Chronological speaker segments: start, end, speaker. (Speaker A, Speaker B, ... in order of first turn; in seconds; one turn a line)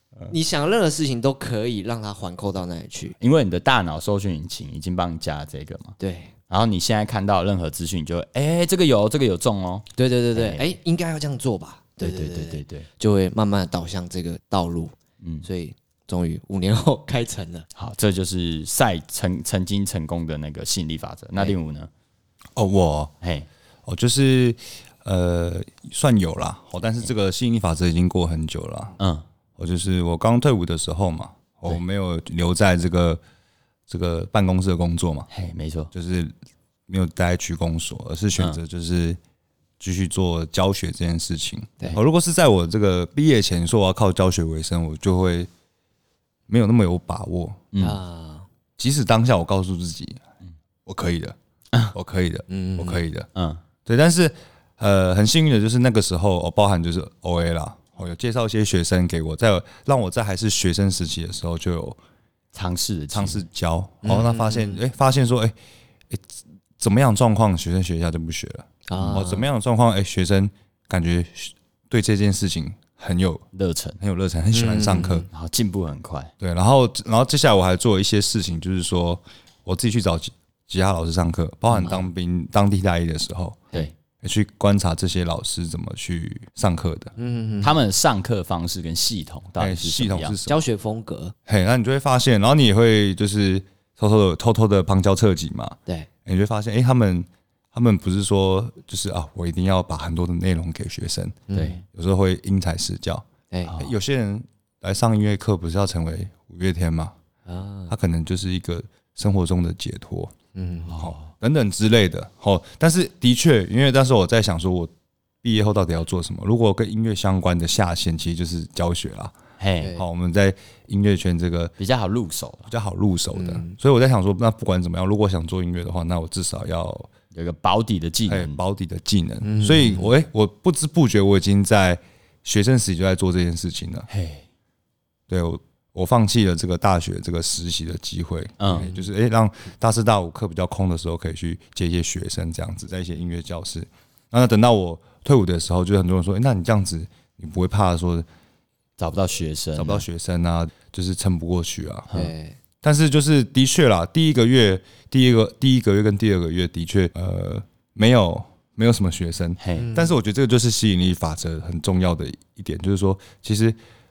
Speaker A: 0.3-3.1
Speaker B: 3.2-6.0
Speaker A: 6.0-6.3
Speaker B: 6.5-10.6
Speaker A: 10.0-17.6
Speaker B: 12.0-12.9
Speaker B: 17.8-21.9
Speaker C: 22.6-23.1
Speaker B: 23.2-23.5
Speaker C: 23.9-28.9
Speaker B: 29.0-29.2
Speaker C: 29.6-33.2
Speaker C: 33.9-35.3
Speaker B: 35.3-35.9
Speaker C: 35.9-36.3
Speaker C: 36.9-39.2
Speaker C: 39.8-45.5
Speaker C: 46.5-47.6
Speaker B: 47.7-48.0
Speaker A: 47.8-48.5
Speaker C: 48.8-50.2
Speaker C: 50.9-51.4
Speaker C: 51.9-53.3
Speaker A: 52.5-53.0
Speaker B: 53.3-53.6
Speaker C: 53.9-62.0
Speaker B: 62.5-63.4
Speaker C: 63.1-65.5
Speaker A: 64.0-64.8
Speaker C: 66.8-73.4
Speaker A: 68.9-69.5
Speaker B: 69.0-69.2
Speaker B: 73.5-74.0
Speaker C: 74.0-75.3
Speaker A: 74.5-75.3
Speaker B: 75.3-76.3
Speaker C: 76.4-83.7
Speaker C: 84.2-87.1
Speaker A: 87.2-87.8
Speaker B: 87.6-90.3
Speaker C: 89.6-90.6
Speaker A: 90.5-91.3
Speaker C: 91.5-107.1
Speaker A: 101.5-101.8
Speaker B: 101.5-101.8
Speaker B: 103.7-103.9
Speaker A: 107.5-107.9
Speaker C: 107.9-110.3
Speaker A: 110.5-110.9
Speaker B: 110.9-111.3
Speaker C: 110.9-114.9
Speaker C: 115.4-119.3
Speaker B: 119.6-119.9
Speaker C: 119.9-121.7
Speaker B: 121.8-122.7
Speaker C: 122.7-127.1
Speaker A: 123.3-123.7
Speaker B: 127.3-128.6
Speaker C: 128.3-134.1
Speaker A: 129.4-130.1
Speaker B: 134.1-134.4
Speaker C: 135.3-148.2
Speaker B: 138.6-138.9
Speaker A: 138.7-139.0
Speaker B: 149.0-150.0
Speaker C: 149.7-152.1
Speaker A: 152.1-152.6
Speaker C: 152.8-163.8
Speaker B: 159.6-159.9
Speaker A: 159.8-160.1